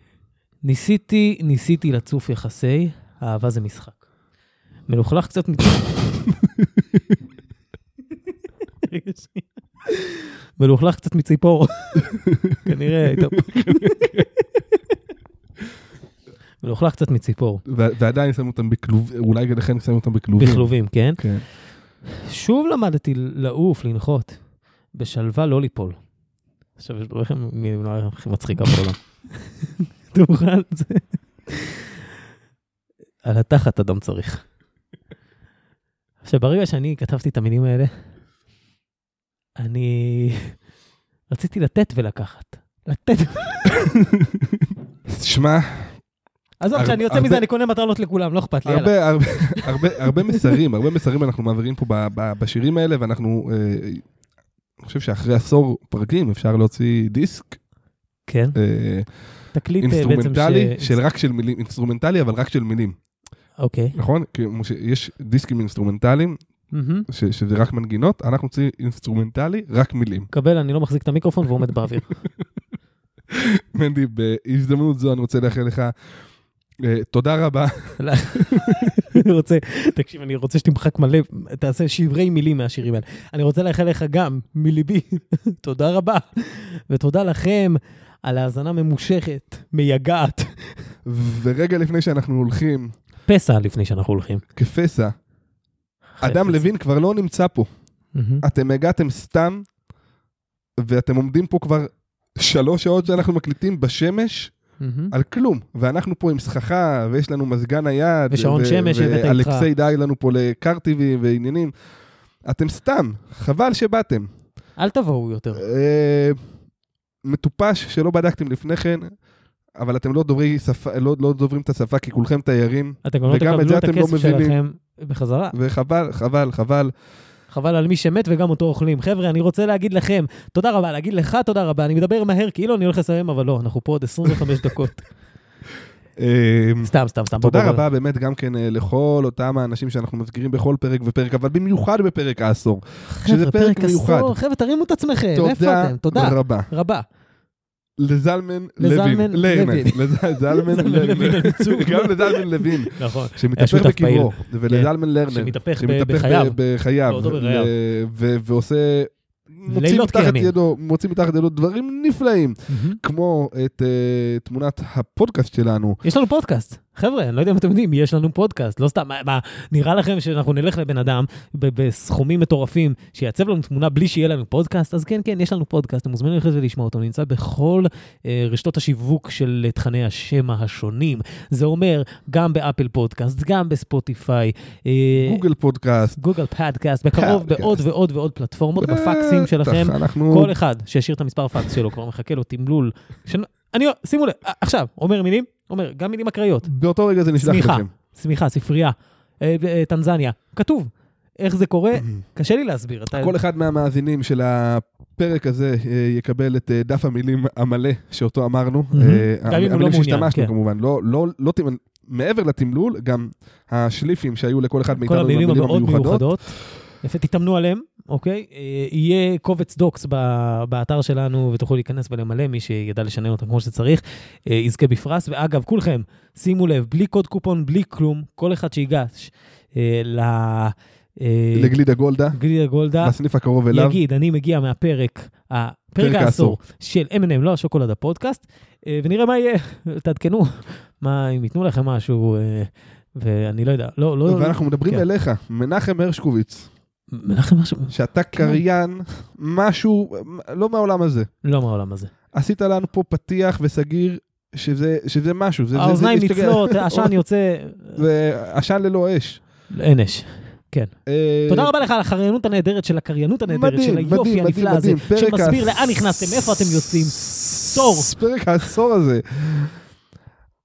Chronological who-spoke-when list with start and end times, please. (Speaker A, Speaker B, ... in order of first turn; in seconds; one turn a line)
Speaker A: 0.6-4.0
Speaker A: 4.9-6.3
Speaker A: 8.8-14.3
Speaker B: 13.4-14.2
Speaker A: 16.6-17.6
Speaker B: 17.7-21.4
Speaker A: 20.4-21.2
Speaker A: 22.1-24.4
Speaker A: 24.9-26.0
Speaker A: 26.8-29.5
Speaker A: 30.1-31.9
Speaker A: 33.2-34.4
Speaker A: 36.2-37.9
Speaker A: 39.6-40.5
Speaker A: 41.3-43.8
Speaker B: 43.8-46.0
Speaker A: 46.6-50.6
Speaker B: 46.7-47.5
Speaker B: 48.7-54.0
Speaker B: 54.8-57.6
Speaker A: 58.3-58.6
Speaker B: 58.6-59.1
Speaker A: 59.5-61.0
Speaker B: 59.8-63.0
Speaker A: 63.6-64.0
Speaker B: 64.0-66.4
Speaker A: 66.7-67.1
Speaker B: 67.1-70.3
Speaker A: 70.3-72.2
Speaker B: 73.3-75.9
Speaker B: 76.8-78.9
Speaker A: 78.0-90.8
Speaker B: 91.0-92.9
Speaker A: 93.3-94.4
Speaker B: 94.6-95.1
Speaker A: 96.2-96.7
Speaker B: 96.2-97.7
Speaker A: 98.2-98.5
Speaker B: 98.4-99.7
Speaker B: 100.8-104.5
Speaker A: 104.8-105.1
Speaker B: 105.1-111.7
Speaker A: 108.3-109.7
Speaker B: 112.5-114.3
Speaker A: 114.8-115.6
Speaker B: 115.6-116.4
Speaker B: 117.2-119.1
Speaker B: 119.8-124.6
Speaker A: 123.0-125.5
Speaker B: 125.5-126.9
Speaker A: 127.5-135.1
Speaker B: 136.2-144.3
Speaker A: 136.8-137.8
Speaker A: 143.1-147.1
Speaker B: 145.3-146.7
Speaker B: 148.0-166.0
Speaker A: 148.8-157.7
Speaker A: 159.7-160.5
Speaker A: 162.7-163.0
Speaker A: 166.0-185.4
Speaker B: 185.2-186.2
Speaker A: 186.2-196.7
Speaker B: 187.2-187.8
Speaker B: 188.8-190.5
Speaker B: 196.6-197.9
Speaker A: 197.4-203.3
Speaker B: 202.0-202.2
Speaker B: 203.2-216.3
Speaker A: 208.9-210.5
Speaker A: 214.9-231.8
Speaker B: 231.6-232.4
Speaker A: 232.3-233.2
Speaker B: 233.0-234.0
Speaker A: 233.7-245.1
Speaker B: 236.0-236.6
Speaker B: 244.3-246.7
Speaker A: 247.1-248.6
Speaker B: 247.9-251.3
Speaker A: 251.4-252.1
Speaker B: 252.3-257.1
Speaker A: 255.8-258.0
Speaker B: 258.0-259.4
Speaker A: 259.7-260.9
Speaker B: 261.1-261.7
Speaker A: 261.5-268.1
Speaker B: 263.5-265.8
Speaker B: 267.2-269.7